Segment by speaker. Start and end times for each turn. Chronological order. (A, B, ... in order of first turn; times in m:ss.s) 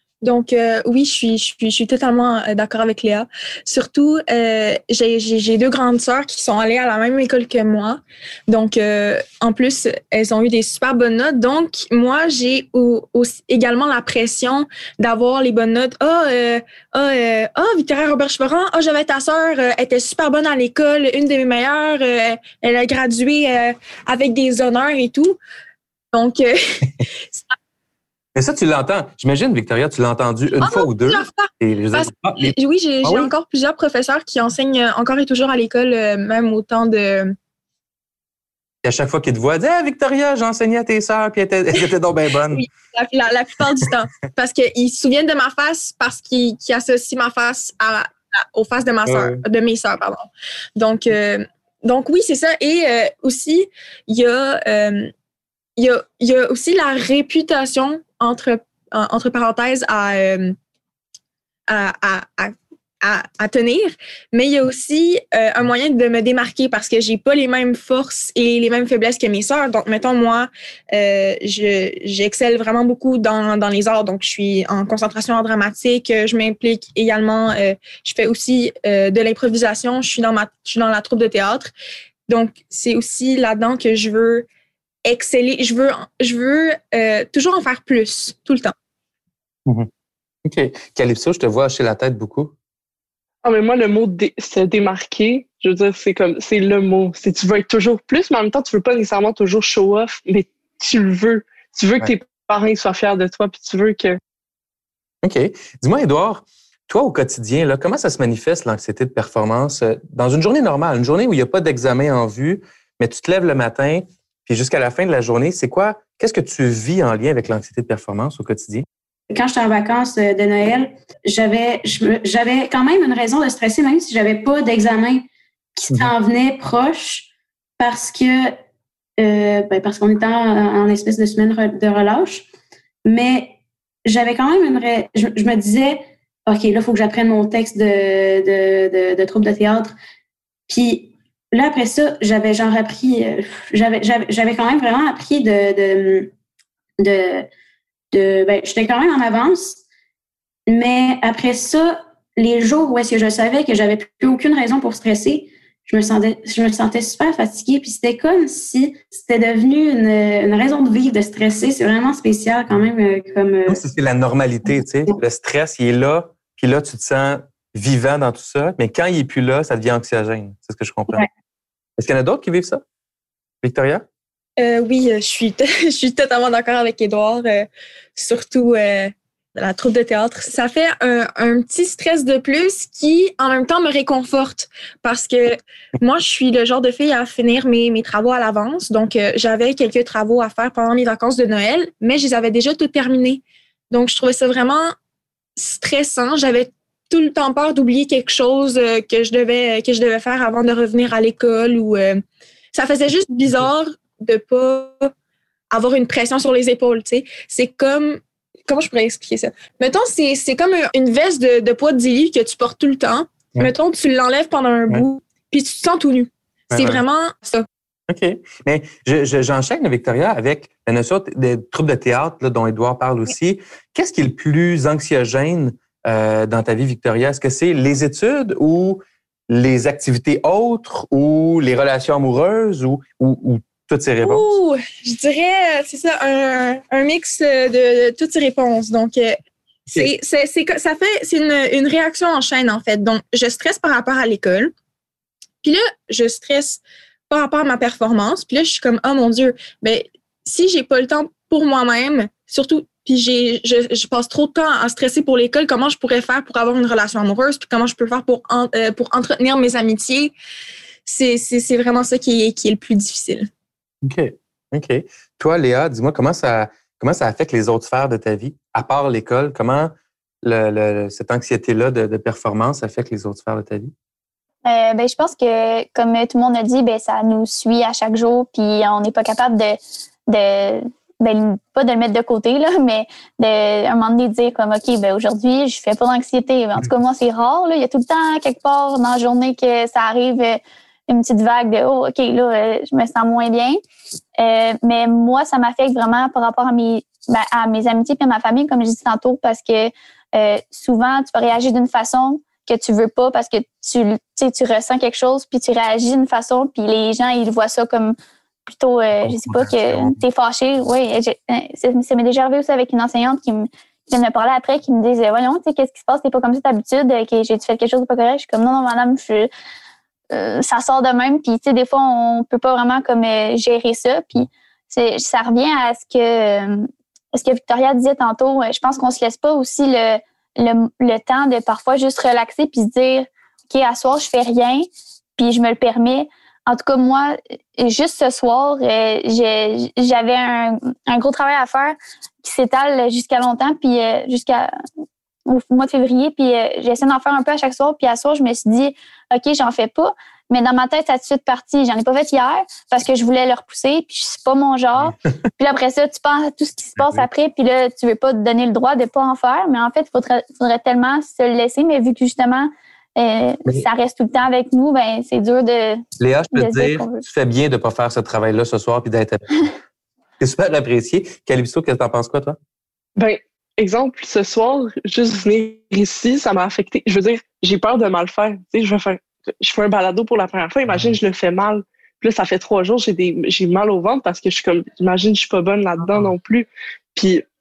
0:00.2-0:25.4 A
0:26.1-0:27.5 A
0:28.3-0:33.3 B
0:30.6-0:37.4 A
0:38.8-0:42.7 B
0:42.5-0:55.1 A
0:49.0-0:49.4 B
0:55.8-1:00.6 A
1:01.7-1:21.7 A
1:22.3-1:24.5 A
1:25.0-1:28.7 A
1:30.4-1:32.5 B
1:33.4-1:44.2 C
1:45.2-1:58.8 B
1:59.3-2:08.5 D
2:09.2-2:12.5 D
2:13.0-2:19.9 D
2:20.7-2:26.3 D
2:27.0-2:27.5 D
2:28.1-2:29.8 D
2:30.7-2:43.8 D
2:43.7-2:51.3 B
2:52.0-2:52.8 B
2:53.6-2:54.0 B
2:54.6-3:14.9 A
3:15.6-3:25.1 A
3:25.7-3:37.6 A
3:36.7-3:37.0 B
3:38.1-3:54.5 B
3:54.2-4:04.7 A
4:05.6-4:20.3 A
4:21.0-4:23.5 A
4:24.0-4:33.9 B
4:34.6-4:53.8 E
4:54.4-5:19.5 E
5:09.2-5:10.2 B
5:20.3-5:44.7 E
5:45.5-6:07.2 E
5:57.0-5:57.3 B
6:06.2-6:09.6 B
6:10.4-6:12.6 B
6:13.2-6:27.4 C
6:20.9-6:21.1 B